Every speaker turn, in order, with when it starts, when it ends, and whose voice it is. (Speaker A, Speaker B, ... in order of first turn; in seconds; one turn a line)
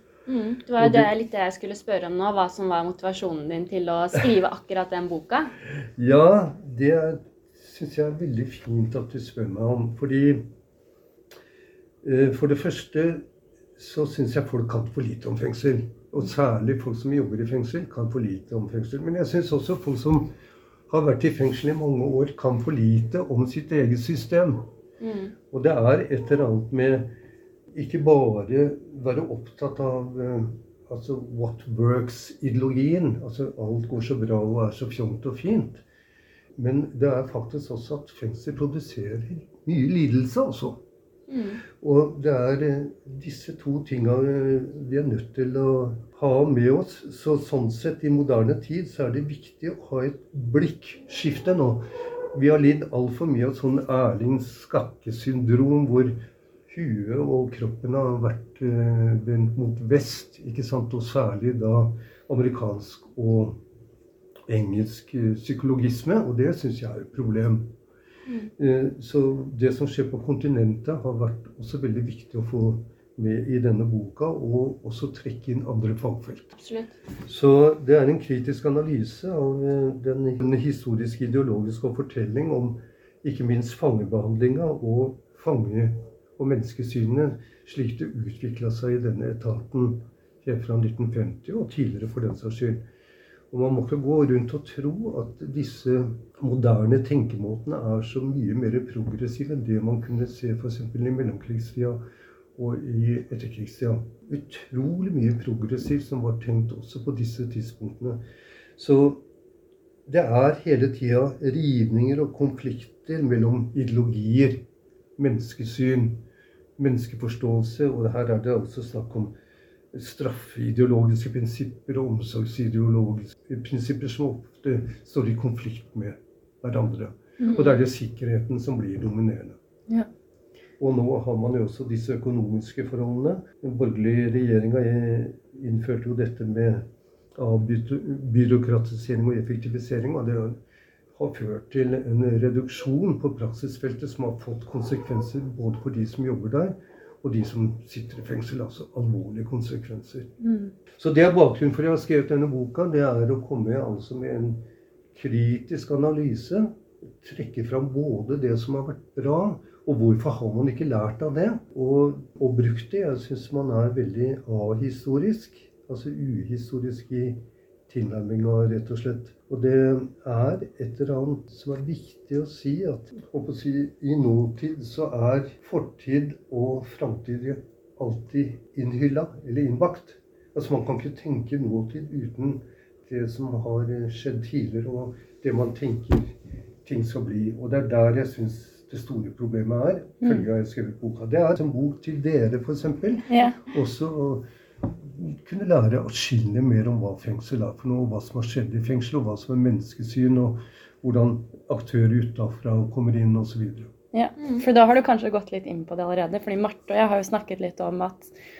Speaker A: 0.3-5.5
Speaker B: 0.8-1.1
Speaker B: 6.0-10.5
Speaker B: 12.0-13.2
Speaker B: 13.8-20.3
Speaker B: 20.9-24.6
Speaker A: 25.0-25.3
Speaker B: 25.5-27.1
Speaker B: 27.7-35.8
Speaker B: 36.5-40.8
Speaker A: 41.3-41.6
Speaker B: 41.7-63.6
Speaker B: 64.5-67.7
Speaker B: 68.6-76.5
Speaker A: 76.5-77.0
Speaker B: 77.2-92.8
Speaker B: 93.5-102.0
Speaker B: 102.5-108.2
Speaker B: 108.8-109.2
Speaker B: 110.0-114.7
Speaker B: 115.2-116.2
Speaker B: 116.8-119.3
Speaker B: 119.9-129.6
Speaker B: 130.8-140.6
Speaker B: 141.1-150.3
Speaker C: 150.4-150.7
Speaker B: 150.9-203.9
Speaker C: 193.3-193.6
Speaker C: 204.1-208.3
Speaker A: 204.4-204.7